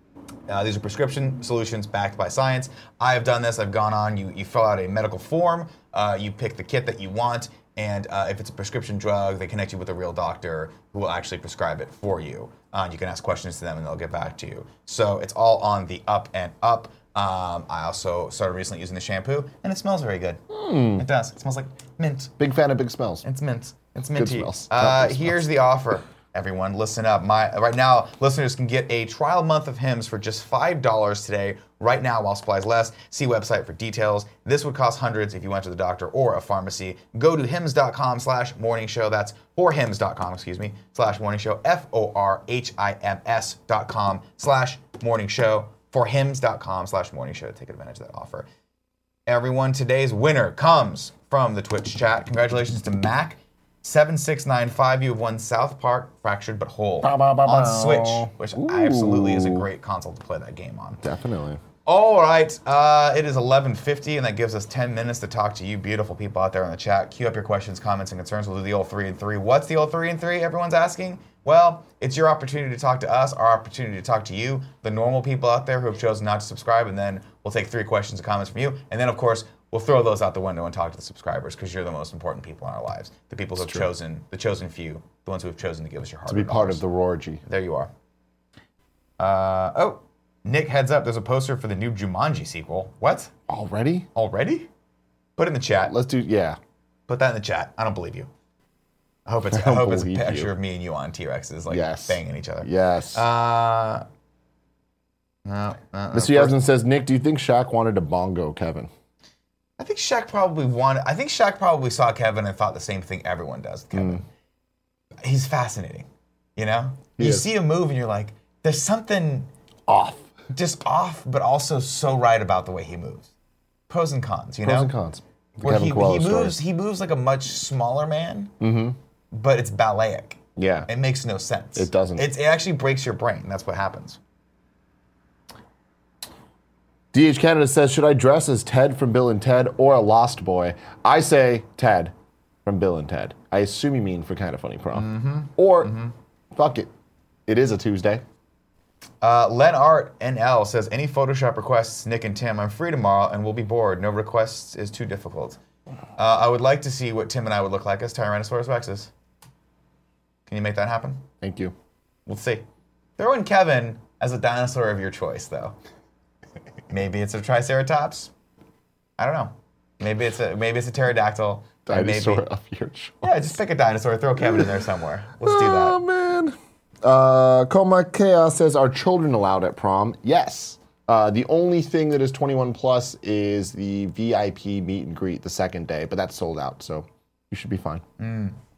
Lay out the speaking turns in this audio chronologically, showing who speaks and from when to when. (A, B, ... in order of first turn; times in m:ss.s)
0:00.5-0:20.4 A
0:20.5-0:21.0 B
0:20.9-0:22.3 A
0:22.4-0:23.2 B
0:23.2-0:48.5 A
0:24.1-0:25.5 B
0:49.3-1:01.0 A
0:57.0-0:59.6 B
1:01.0-1:01.6 B
1:01.8-1:26.8 A
1:23.6-1:23.9 B
1:26.2-1:27.4 B
1:27.4-1:27.9 A
1:29.2-1:33.3 A
1:33.5-1:34.1 B
1:34.1-1:34.7 A
1:35.4-1:35.9 A
1:35.9-1:36.6 B
1:37.1-1:38.3 A
1:39.3-1:44.0 A
1:39.5-1:40.5 B
1:41.7-1:43.2 B
1:45.4-1:46.6 A
1:46.1-1:48.9 B
1:49.8-1:54.3 A
1:53.9-1:54.2 B
1:55.2-1:56.0 A
1:56.6-1:59.5 A
1:57.2-1:57.5 B
1:59.9-2:00.2 B
2:00.5-2:03.3 A
2:03.9-2:04.9 A
2:04.6-2:06.6 B
2:05.6-2:08.5 A
2:08.6-2:09.0 B
2:09.3-2:14.2 A
2:10.6-2:10.9 B
2:11.7-2:12.3 B
2:17.1-2:22.1 B
2:22.6-2:25.9 B
2:24.9-2:26.1 A
2:26.5-2:26.9 B
2:27.5-2:28.2 B
2:29.2-2:35.6 A
2:36.2-2:39.1 A
2:40.5-2:41.2 A
2:41.4-2:41.7 B
2:42.2-2:42.6 A
2:43.2-2:45.8 A
2:46.9-2:48.3 A
2:49.2-2:52.4 A
2:51.9-2:53.6 B
2:53.2-2:56.0 A
2:54.4-2:54.8 B
2:55.4-3:08.0 B
3:08.2-3:08.6 A